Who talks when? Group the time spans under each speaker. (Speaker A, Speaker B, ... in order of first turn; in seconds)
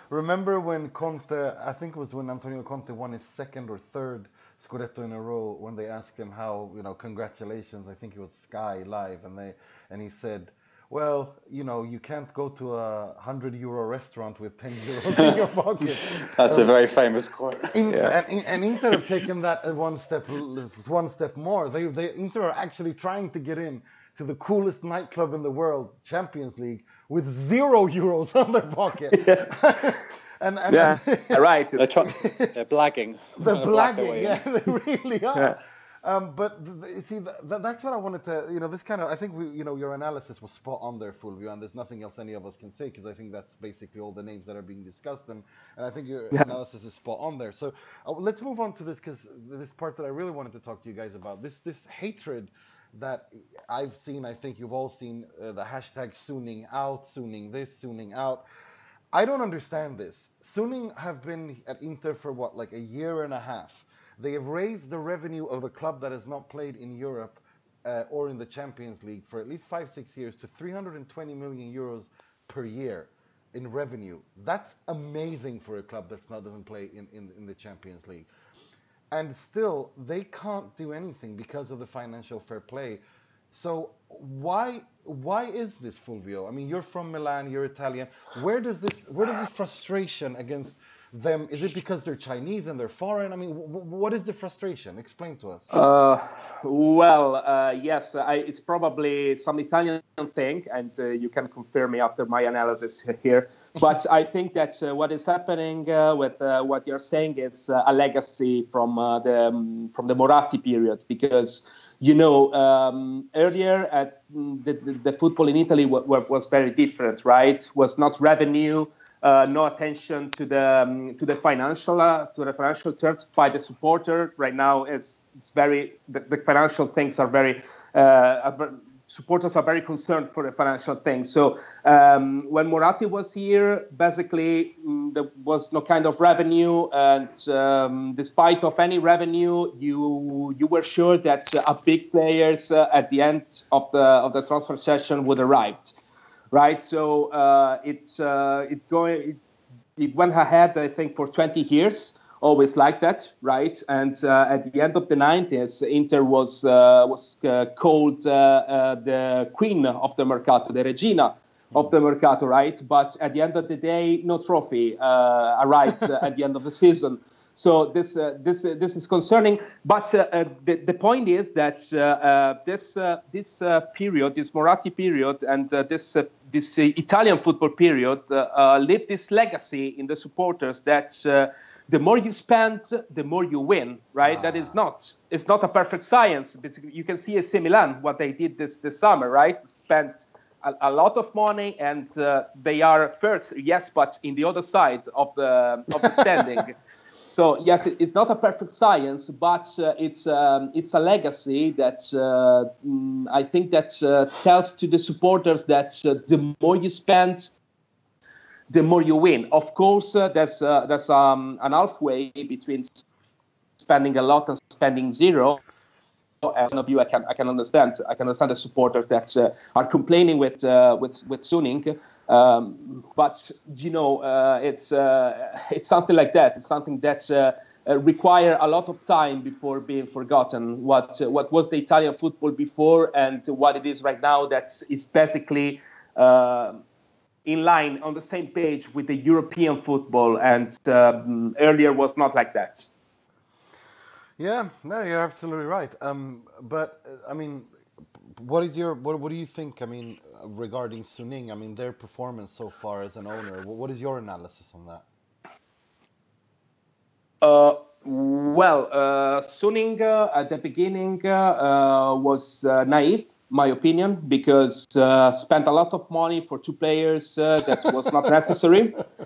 Speaker A: 0.1-16.7, 17.7-31.5, 32.0-32.5, 33.4-58.5, 59.1-78.3, 79.1-83.0, 83.5-95.7, 184.2-184.7, 244.4-247.7, 248.4-255.1
Speaker B: 15.1-18.1, 31.8-34.4
Speaker C: 29.1-29.5, 30.7-31.9, 95.7-145.9, 146.5-149.4, 150.0-196.8, 197.3-207.5, 208.7-213.0, 213.8-215.6, 216.4-236.8, 237.4-242.9, 257.4-269.0